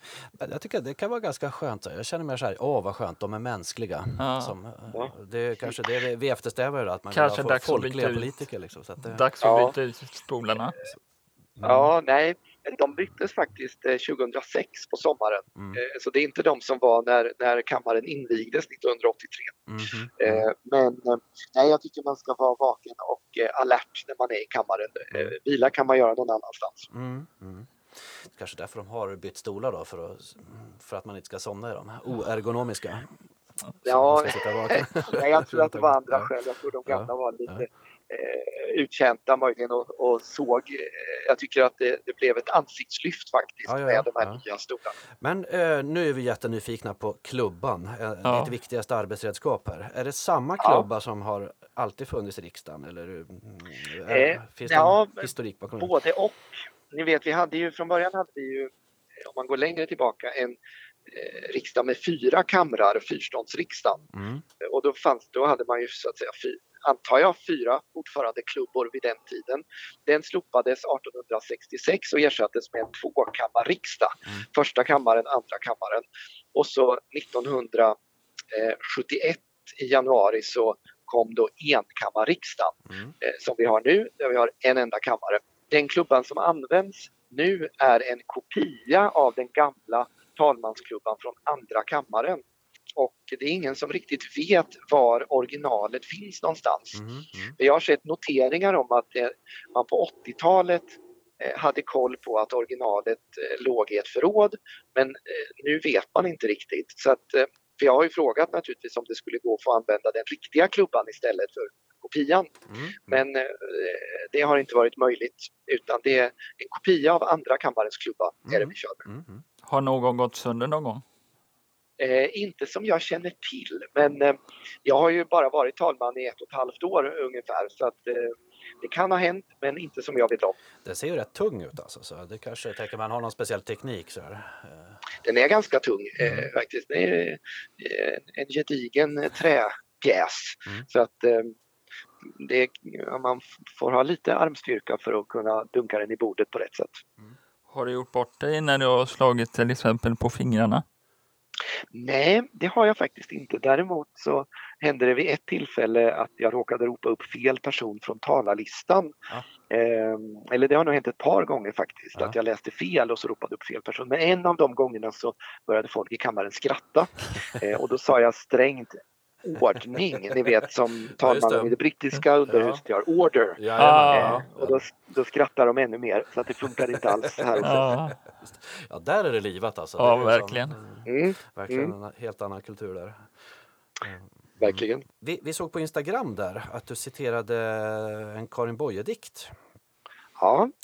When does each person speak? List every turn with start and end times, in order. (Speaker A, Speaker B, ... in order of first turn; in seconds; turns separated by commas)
Speaker A: 0.3-9.2, Speaker B: 4.2-4.5, Speaker B: 7.1-8.4, Speaker B: 9.0-10.8, Speaker C: 9.4-9.7, Speaker A: 11.6-11.9, Speaker C: 11.6-19.6, Speaker A: 15.5-15.8, Speaker A: 19.7-20.5, Speaker C: 20.1-26.9, Speaker A: 26.9-33.1, Speaker A: 33.8-36.3, Speaker C: 33.8-45.0, Speaker A: 36.9-37.6, Speaker A: 43.6-44.4, Speaker A: 45.2-55.9, Speaker B: 48.2-48.5, Speaker C: 50.6-50.9, Speaker C: 54.1-58.7, Speaker C: 59.2-64.1, Speaker A: 64.1-64.4, Speaker C: 64.6-78.0, Speaker C: 78.5-92.4, Speaker C: 93.0-97.0, Speaker A: 96.9-97.5, Speaker C: 97.5-119.0, Speaker A: 112.7-113.2, Speaker A: 118.5-119.4, Speaker B: 119.7-121.0, Speaker C: 122.0-130.6, Speaker A: 130.8-135.0, Speaker C: 135.2-141.5, Speaker C: 142.2-147.0, Speaker B: 147.7-150.8, Speaker C: 151.9-159.2, Speaker C: 159.7-177.8, Speaker A: 171.2-171.7, Speaker A: 172.5-172.8, Speaker A: 173.6-174.8, Speaker B: 173.8-174.4, Speaker A: 177.5-183.3, Speaker B: 177.6-178.2, Speaker B: 180.0-180.8, Speaker C: 181.1-181.9, Speaker A: 184.0-189.6, Speaker C: 184.6-185.0, Speaker C: 190.4-190.7